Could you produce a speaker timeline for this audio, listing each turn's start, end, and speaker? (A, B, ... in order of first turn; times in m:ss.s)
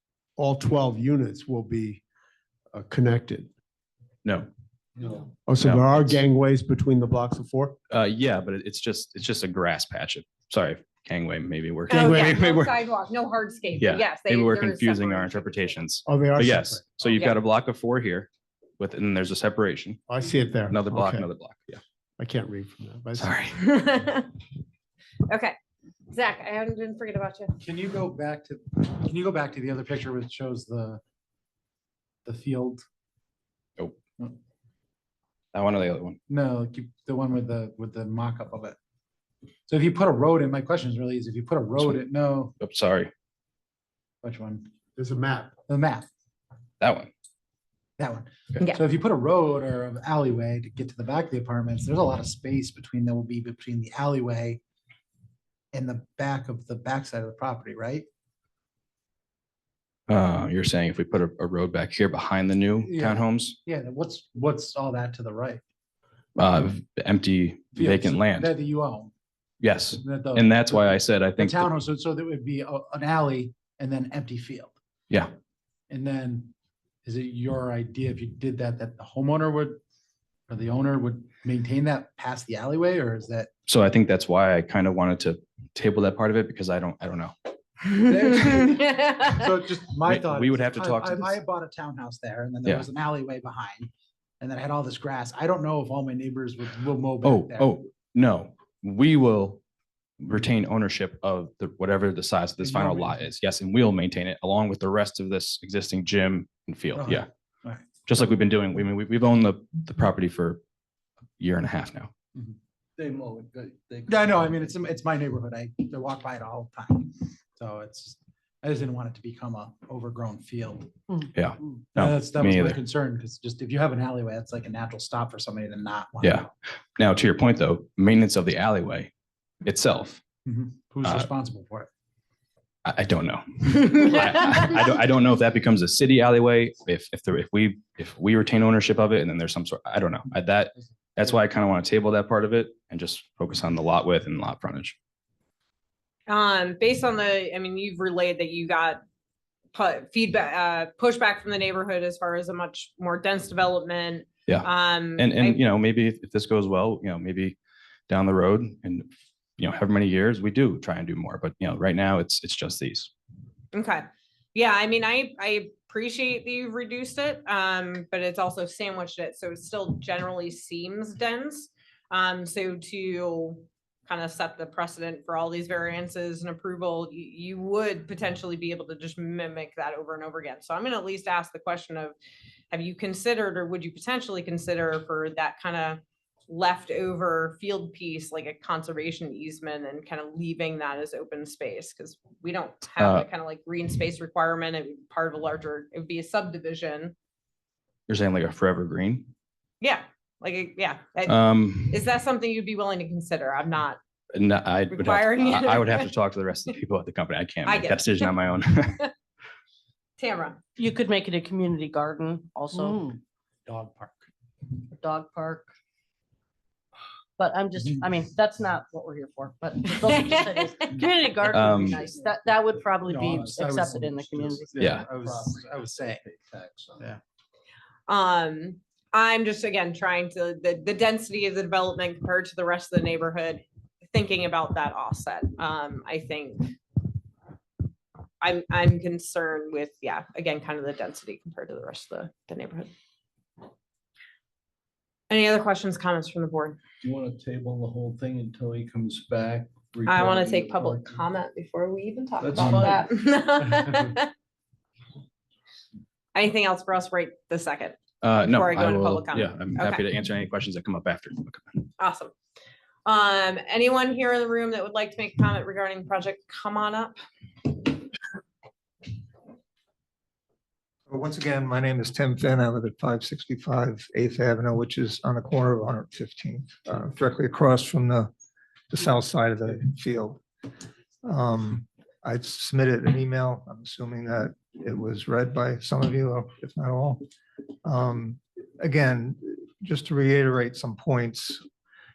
0:00.4-0:02.0 A
0:02.7-0:03.5 A
0:04.2-0:04.5 B
0:05.4-0:07.8 A
0:05.6-0:06.2 B
0:07.9-0:12.8 B
0:11.9-0:15.8 C
0:11.9-0:12.3 A
0:13.8-0:20.0 B
0:16.0-0:16.8 A
0:20.1-0:21.3 A
0:20.7-0:21.8 B
0:22.2-0:23.3 A
0:23.2-0:23.6 B
0:23.5-0:24.3 C
0:25.3-0:25.6 C
0:26.1-0:27.6 C
0:27.6-0:31.0 D
0:32.2-0:32.8 D
0:35.5-0:36.2 B
0:36.3-0:38.8 D
0:39.7-0:42.5 D
0:42.6-0:43.1 B
0:44.2-0:44.7 D
0:45.0-0:45.5 A
0:45.7-0:46.1 D
0:46.8-0:47.1 B
0:48.0-0:54.6 D
0:55.7-0:58.0 D
1:00.1-1:03.6 B
1:02.8-1:05.6 D
1:06.4-1:08.5 B
1:07.7-1:09.1 D
1:09.6-1:11.7 B
1:10.0-1:14.7 D
1:15.9-1:16.5 D
1:17.0-1:19.8 D
1:20.5-1:23.5 D
1:23.7-1:27.3 B
1:27.9-1:29.4 C
1:28.0-1:37.8 D
1:30.0-1:31.4 B
1:37.2-1:39.6 B
1:40.2-1:47.2 B
1:42.6-1:43.2 D
1:46.9-1:47.9 D
1:48.0-1:50.6 B
1:51.4-1:52.1 B
1:54.1-2:01.2 D
2:01.3-2:02.8 B
2:01.9-2:06.4 D
2:06.2-2:09.1 B
2:09.6-2:10.2 B
2:10.4-2:11.9 D
2:11.0-2:11.3 B
2:12.8-2:25.0 B
2:26.3-2:29.0 C
2:29.7-2:35.6 C
2:34.5-2:37.6 B
2:38.1-2:43.1 B
2:43.7-3:02.1 C
3:02.7-3:17.1 C
3:13.0-3:13.3 B
3:18.1-3:19.3 B
3:19.8-3:24.0 C
3:21.2-3:22.0 B
3:24.3-3:29.1 B
3:24.9-3:26.1 C
3:27.6-3:28.3 C
3:30.2-3:30.6 C
3:30.8-3:33.1 E
3:33.6-3:34.2 D
3:35.0-3:35.7 E
3:37.4-3:44.8 E
3:40.3-3:40.6 C
3:41.4-3:42.0 B
3:43.0-3:46.2 D
3:44.8-3:45.0 B
3:46.4-3:46.9 F
3:48.1-3:56.8 C
3:58.4-4:02.9 C
4:05.3-4:06.8 C
4:07.0-4:11.2 F
4:10.0-4:14.3 C
4:12.4-4:13.0 F
4:16.3-4:20.0 C
4:18.2-4:21.9 B
4:22.0-4:22.3 C
4:23.0-4:27.2 C
4:31.1-4:38.3 G
4:38.9-4:40.4 G
4:41.2-4:47.2 G
4:47.8-4:51.6 G